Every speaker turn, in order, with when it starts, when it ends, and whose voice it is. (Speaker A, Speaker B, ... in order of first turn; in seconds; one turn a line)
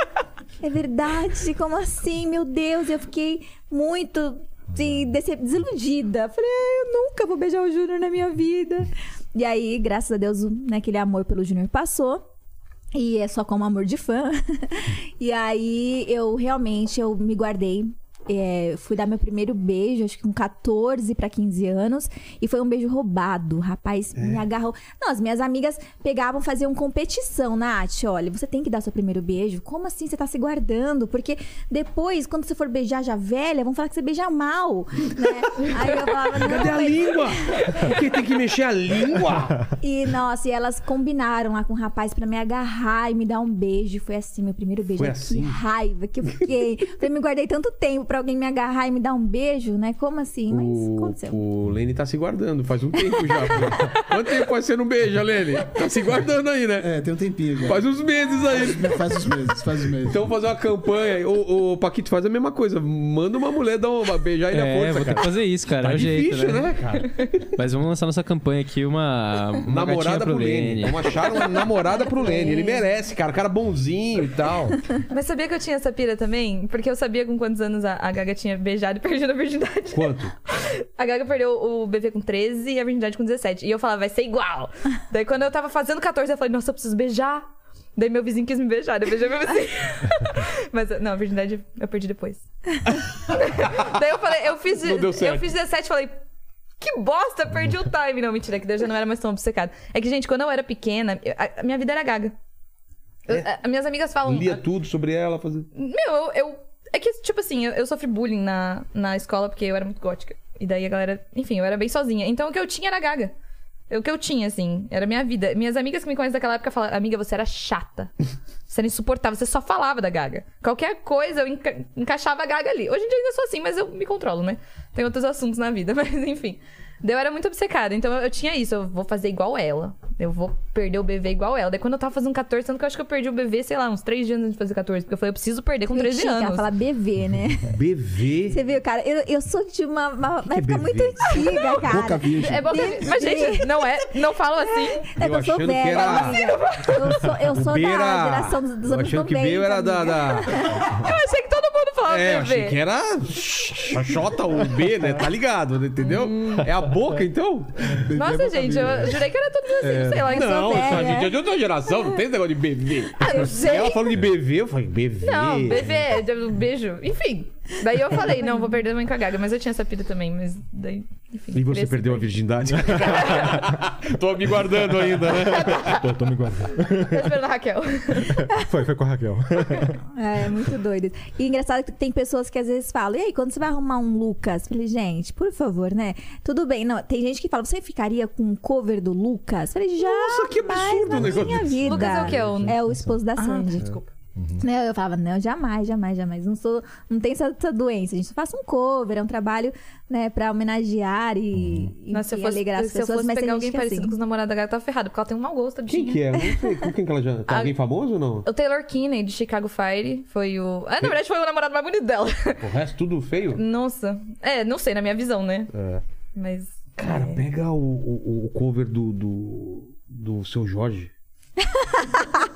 Speaker A: 0.6-12.2
Speaker B: 4.8-5.1
Speaker A: 12.9-37.9
Speaker C: 24.1-24.4
Speaker C: 36.2-39.6
Speaker A: 39.8-51.4
Speaker C: 45.0-45.6
Speaker C: 50.5-56.9
Speaker B: 51.6-51.9
Speaker D: 53.8-54.1
Speaker E: 56.8-57.9
Speaker C: 57.6-59.2
Speaker E: 58.4-60.2
Speaker C: 60.0-67.1
Speaker F: 64.5-66.7
Speaker F: 67.5-71.3
Speaker C: 69.7-74.9
Speaker D: 71.3-71.7
Speaker A: 71.9-72.8
Speaker D: 75.1-92.4
Speaker C: 79.9-80.3
Speaker C: 92.9-93.9
Speaker D: 93.3-96.2
Speaker C: 94.8-95.5
Speaker D: 96.8-102.3
Speaker D: 103.3-104.6
Speaker C: 104.2-105.7
Speaker D: 105.7-113.3
Speaker D: 113.9-118.1
Speaker D: 118.7-136.7
Speaker A: 135.9-137.8
Speaker C: 137.7-138.6
Speaker A: 138.5-143.8
Speaker C: 140.5-141.4
Speaker D: 141.3-141.8
Speaker E: 141.8-142.9
Speaker D: 142.4-145.1
Speaker A: 144.7-151.1
Speaker C: 145.2-146.4
Speaker D: 145.9-147.4
Speaker C: 147.5-150.7
Speaker D: 150.9-152.8
Speaker C: 152.1-157.9
Speaker D: 156.0-156.7
Speaker E: 157.9-159.2
Speaker D: 158.1-161.2
Speaker B: 159.8-160.3
Speaker C: 160.3-165.9
Speaker A: 160.3-161.3
Speaker D: 163.2-164.1
Speaker A: 163.2-164.1
Speaker D: 165.2-173.7
Speaker A: 168.4-168.7
Speaker C: 171.5-176.0
Speaker B: 172.8-173.1
Speaker B: 175.2-177.4
Speaker D: 175.4-176.0
Speaker D: 176.9-178.4
Speaker B: 178.2-180.0
Speaker A: 180.1-193.9
Speaker C: 190.0-192.1
Speaker B: 191.1-193.2
Speaker D: 191.8-192.8
Speaker D: 193.3-194.1
Speaker B: 193.8-194.6
Speaker A: 194.6-204.1
Speaker B: 201.5-201.9
Speaker D: 202.1-206.2
Speaker C: 205.9-208.4
Speaker D: 207.5-207.7
Speaker D: 208.4-212.6
Speaker C: 212.6-213.6
Speaker D: 213.5-215.7
Speaker C: 215.7-216.0
Speaker D: 216.3-217.4
Speaker C: 217.0-221.1
Speaker A: 221.6-222.0